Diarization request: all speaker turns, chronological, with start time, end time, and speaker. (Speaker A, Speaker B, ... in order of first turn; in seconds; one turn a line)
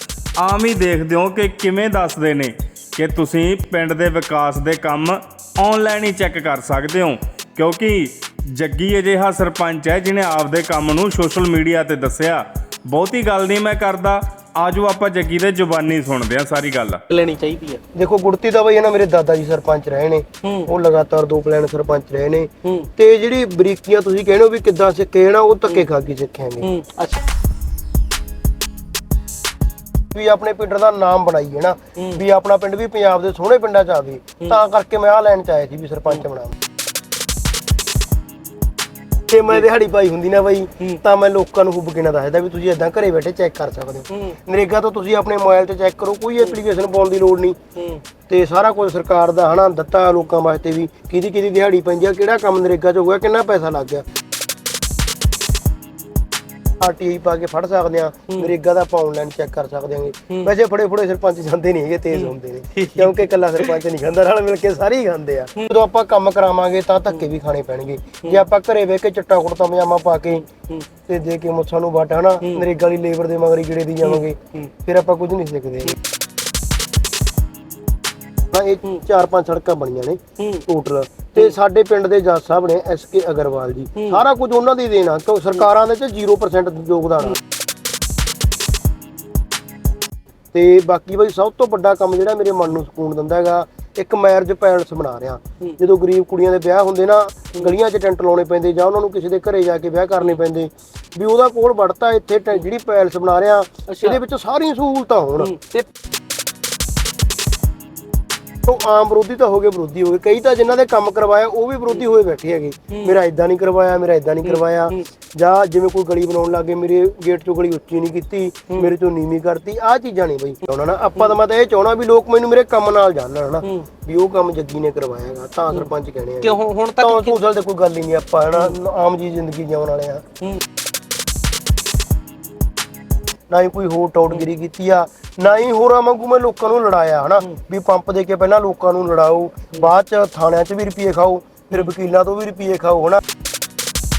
Speaker A: 0.4-17.0
Speaker B: 17.1-17.8
Speaker C: 17.9-26.7
Speaker B: 20.4-20.7
Speaker B: 22.6-22.9
Speaker B: 26.6-27.3
Speaker C: 30.1-36.6
Speaker B: 32.0-32.2
Speaker C: 39.3-47.6
Speaker B: 44.1-44.4
Speaker B: 47.8-48.0
Speaker C: 48.3-54.1
Speaker C: 56.8-70.5
Speaker B: 62.1-63.8
Speaker C: 71.1-76.0
Speaker B: 74.0-74.7
Speaker C: 78.5-87.4
Speaker B: 80.4-80.7
Speaker B: 84.0-84.2
Speaker C: 90.5-105.5
Speaker B: 103.9-104.2
Speaker B: 105.4-105.9
Speaker C: 108.7-130.2
Speaker B: 112.9-113.2
Speaker B: 114.4-115.1
Speaker B: 123.6-123.9
Speaker B: 126.4-127.4
Speaker C: 133.5-143.2